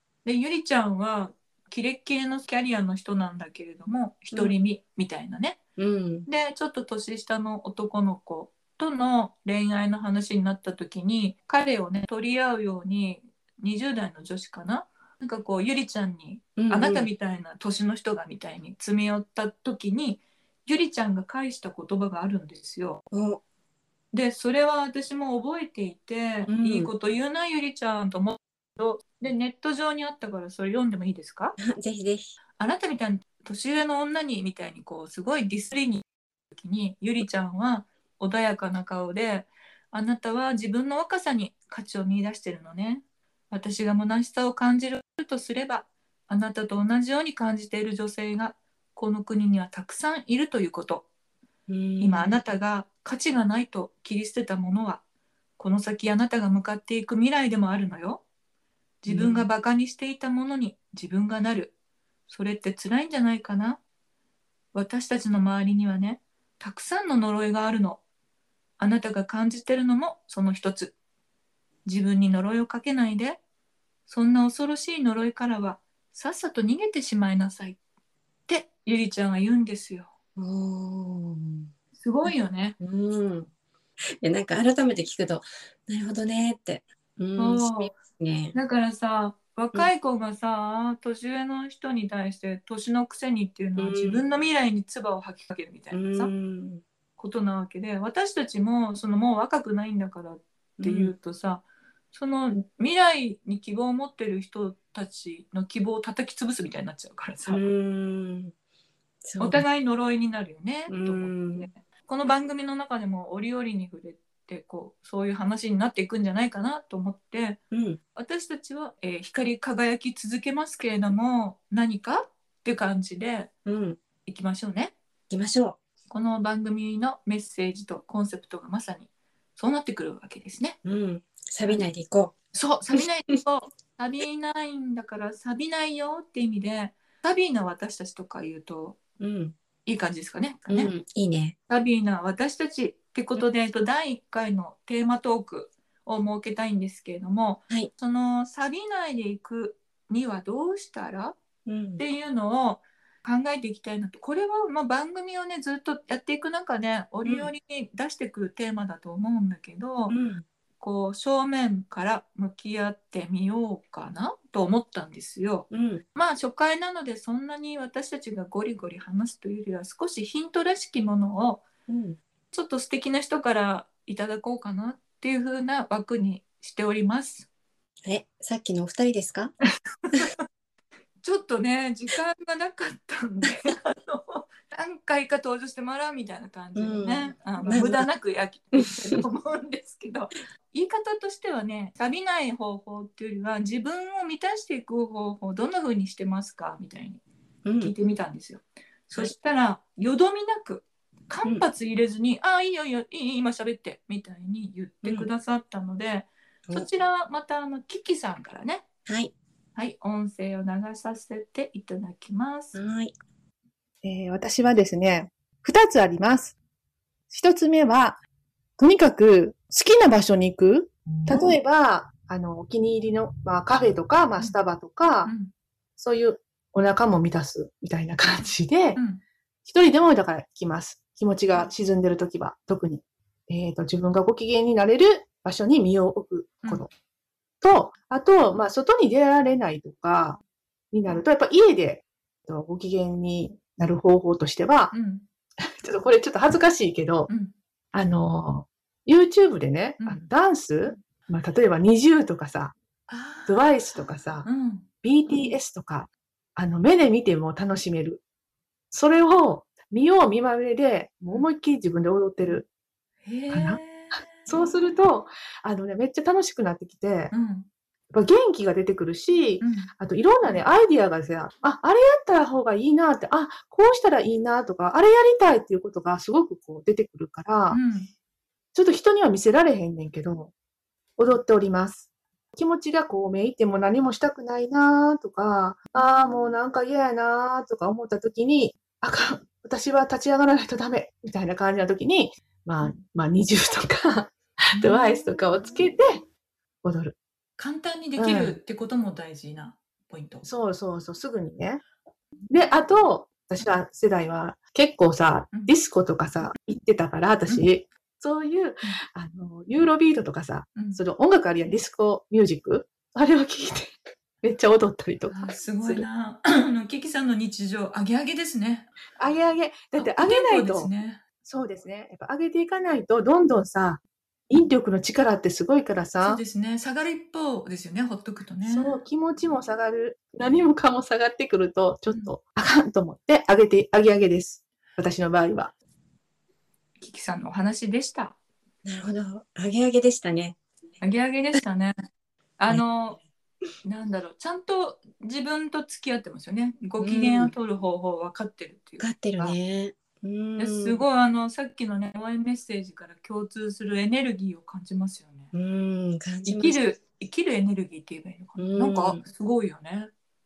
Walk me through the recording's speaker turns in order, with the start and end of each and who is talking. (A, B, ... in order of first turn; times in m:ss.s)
0:00.2-0:05.6 A
0:05.8-0:06.3 B
0:06.3-0:23.0 A
0:16.6-0:17.1 B
0:23.1-0:23.4 B
0:24.1-0:31.6 A
0:26.5-0:26.9 B
0:31.6-0:32.4 B
0:32.6-0:51.0 A
0:51.7-0:52.4 B
0:52.0-0:55.0 A
0:55.6-0:58.2 A
0:59.0-1:01.7 A
0:59.1-0:59.5 B
1:02.3-1:03.8 A
1:04.7-1:08.0 A
1:08.8-1:10.9 A
1:11.8-1:13.4 A
1:14.1-1:17.8 A
1:18.5-1:20.1 A
1:20.4-1:21.7 B
1:22.0-1:22.8 A
1:22.2-1:23.5 B
1:24.2-1:28.5 B
1:27.4-1:27.9 A
1:28.5-1:36.3 A
1:33.8-1:34.2 B
1:35.9-1:36.8 B
1:37.2-1:47.6 A
1:40.8-1:41.1 B
1:47.5-1:48.5 B
1:49.2-1:49.6 B
1:49.4-1:57.6 A
1:50.9-1:51.7 B
1:57.7-1:58.0 B
1:58.1-2:03.5 A
2:03.6-2:04.0 B
2:04.3-2:04.9 A
2:05.3-2:05.8 B
2:06.1-2:10.8 A
2:10.8-2:12.3 B
2:12.5-2:19.0 A
2:19.2-2:19.5 B
2:19.8-2:20.9 A
2:20.7-2:21.5 B
2:21.7-2:31.4 A
2:31.6-2:32.0 B
2:32.0-2:40.1 A
2:37.2-2:37.5 B
2:40.1-2:40.4 B
2:40.8-2:51.6 A
2:45.7-2:46.0 B
2:51.9-2:52.2 B
2:52.5-2:57.5 A
2:58.0-2:59.5 B
3:00.1-3:00.4 A
3:01.2-3:17.2 A
3:06.7-3:08.1 B
3:08.7-3:09.2 B
3:17.6-3:17.9 B
3:17.8-3:28.8 A
3:29.0-3:29.3 B
3:29.8-3:32.8 A
3:32.7-3:33.1 B
3:34.0-3:36.6 C
3:37.3-3:38.2 C
3:38.8-3:45.3 C
3:45.2-3:45.5 A
3:46.0-3:49.0 C
3:49.0-3:49.2 A
3:49.6-3:56.9 C
3:57.6-4:00.4 C
4:00.9-4:04.9 C
4:04.9-4:05.2 A
4:05.8-4:07.3 C
4:07.3-4:07.5 A
4:07.9-4:12.8 C
4:13.1-4:14.9 A
4:13.4-4:14.5 C
4:15.0-4:18.2 C
4:18.9-4:22.7 C
4:23.2-4:24.7 A
4:23.5-4:27.3 C
4:27.3-4:27.7 A
4:28.1-4:37.8 C
4:29.6-4:29.9 A
4:37.7-4:38.1 A
4:38.7-4:40.5 C
4:41.2-4:56.2 C
4:54.7-4:55.4 A
4:56.8-4:57.2 C
4:57.6-5:00.5 A
4:58.2-4:58.6 C
5:00.4-5:01.8 C
5:02.5-5:13.9 C
5:14.4-5:16.0 C
5:15.3-5:18.9 A
5:19.2-5:20.9 C
5:20.0-5:21.2 A
5:21.4-5:26.4 C
5:26.2-5:29.0 A
5:28.6-5:35.7 C
5:37.0-5:38.3 A
5:38.8-5:40.6 B
5:41.0-5:41.9 A
5:42.6-5:43.2 A
5:43.8-5:49.6 A
5:47.0-5:47.5 B
5:49.0-5:51.0 B
5:50.6-5:55.5 A
5:55.5-5:56.8 B
5:56.4-6:00.1 A
5:58.6-5:59.2 B